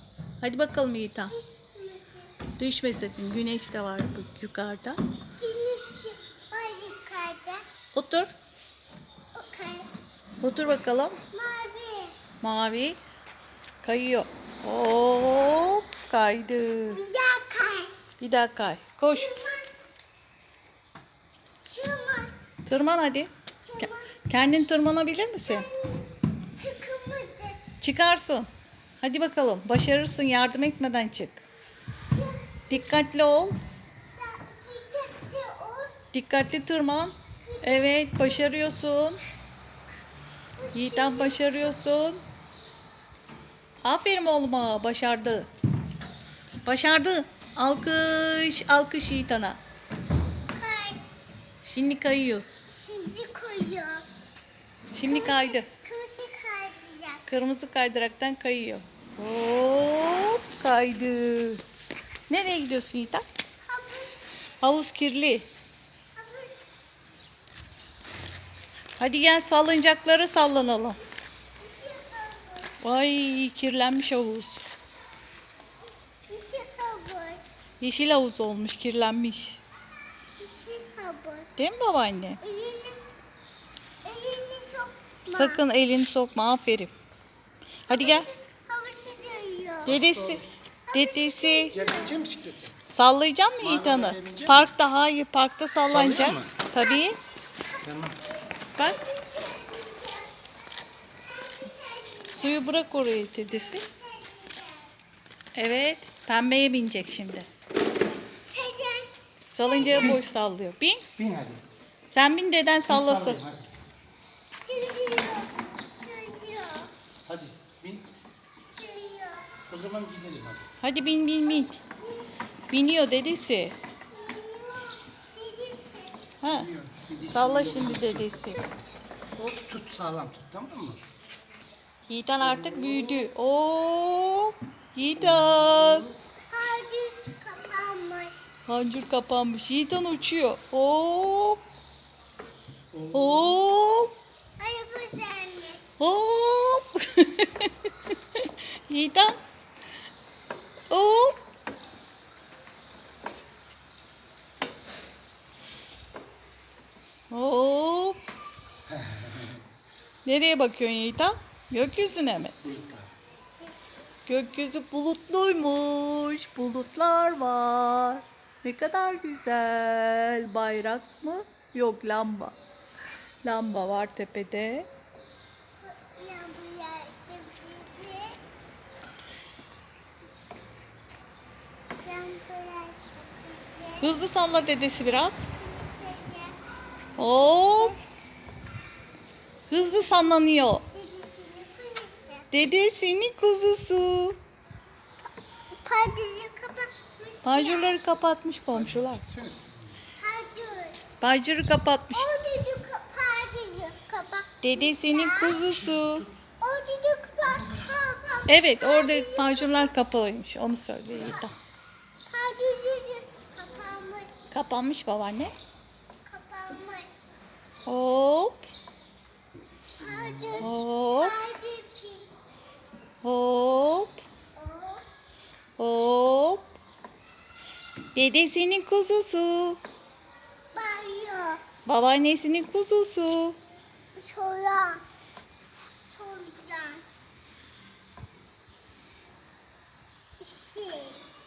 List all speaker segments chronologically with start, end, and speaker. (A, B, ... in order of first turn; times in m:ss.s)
0:00.4-0:01.3 A
0:01.3-0:02.3 B
0:02.6-0:05.0 A
0:05.4-0:07.6 B
0:07.9-0:08.3 A
0:09.3-0:09.9 B
0:10.4-0:11.2 A
0:11.3-0:12.2 B
0:12.4-0:13.0 A
0:13.8-0:17.0 A
0:16.9-0:18.0 B
0:18.2-0:19.3 A
0:19.0-0:19.7 B
0:21.6-0:22.3 B
0:22.6-0:25.7 A
0:23.6-0:24.2 B
0:25.4-0:27.6 B
0:27.8-0:28.5 A
0:29.0-0:31.4 A
0:31.9-0:33.0 B
0:32.7-0:33.6 A
0:34.1-0:35.9 B
0:36.1-0:39.2 A
0:37.4-0:38.2 B
0:40.6-0:41.8 B
0:40.7-0:42.2 A
0:43.8-0:45.5 A
0:46.6-0:49.6 A
0:50.5-0:51.5 B
0:51.6-0:52.4 A
0:52.7-0:54.0 B
0:54.9-0:55.7 A
0:55.0-0:57.2 B
0:57.3-1:01.6 A
1:02.3-1:03.2 A
1:03.6-1:04.3 B
1:04.6-1:05.5 A
1:06.2-1:06.8 B
1:09.0-1:11.0 A
1:11.6-1:12.8 B
1:12.8-1:14.6 A
1:15.8-1:17.4 B
1:17.8-1:19.6 A
1:20.4-1:21.6 B
1:21.6-1:22.4 A
1:22.4-1:23.0 B
1:24.0-1:25.6 B
1:25.3-1:26.9 A
1:27.9-1:28.3 A
1:27.9-1:30.0 B
1:29.8-1:31.8 A
1:29.9-1:30.5 C
1:30.9-1:32.2 B
1:31.7-1:32.7 C
1:32.9-1:37.2 A
1:33.6-1:34.7 C
1:35.9-1:36.6 C
1:37.6-1:40.3 B
1:37.8-1:38.2 C
1:38.7-1:39.0 A
1:41.2-1:42.7 B
1:42.4-1:43.8 A
1:43.4-1:44.9 B
1:45.5-1:47.5 A
1:47.9-1:50.1 B
1:49.5-1:51.1 A
1:49.8-1:50.2 C
1:51.2-1:51.6 C
1:52.1-1:53.4 A
1:52.9-1:53.7 C
1:54.5-1:56.9 B
1:57.2-1:58.1 C
1:58.6-1:59.5 B
1:59.7-2:00.7 C
2:00.8-2:01.8 A
2:01.4-2:02.3 B
2:02.7-2:03.8 A
2:04.1-2:06.2 B
2:06.4-2:06.7 A
2:06.5-2:08.5 C
2:07.3-2:08.7 A
2:08.4-2:08.7 B
2:09.4-2:11.0 C
2:12.1-2:16.1 A
2:12.5-2:13.3 C
2:15.2-2:16.1 C
2:16.5-2:18.6 B
2:18.7-2:21.6 A
2:22.9-2:23.6 C
2:23.1-2:24.2 A
2:24.6-2:26.0 B
2:26.0-2:29.4 A
2:30.9-2:31.4 A
2:37.3-2:38.2 A
2:40.2-2:42.7 A
2:42.6-2:43.1 C
2:44.3-2:52.5 A
2:53.4-2:54.9 A
2:55.8-2:58.4 B
3:02.0-3:04.2 B
3:04.0-3:05.5 A
3:05.5-3:06.6 B
3:07.2-3:08.0 A
3:09.7-3:10.8 A
3:10.9-3:12.5 B
3:12.5-3:14.4 A
3:15.8-3:18.2 B
3:17.4-3:19.2 A
3:18.7-3:20.0 C
3:20.2-3:21.1 B
3:21.2-3:22.3 A
3:22.1-3:25.6 B
3:24.6-3:26.3 A
3:25.6-3:26.3 C
3:26.6-3:29.9 B
3:27.5-3:27.9 C
3:28.5-3:31.5 A
3:31.2-3:31.5 B
3:32.2-3:34.5 B
3:34.5-3:35.5 A
3:36.2-3:37.3 B
3:37.8-3:38.6 A
3:40.0-3:42.6 B
3:40.6-3:41.4 A
3:43.2-3:44.2 A
3:44.5-3:45.0 B
3:45.8-3:46.7 A
3:48.1-3:49.8 A
3:50.7-3:51.6 B
3:51.8-3:53.6 A
3:54.2-3:55.0 B
3:56.1-3:57.0 B
4:00.4-4:01.2 B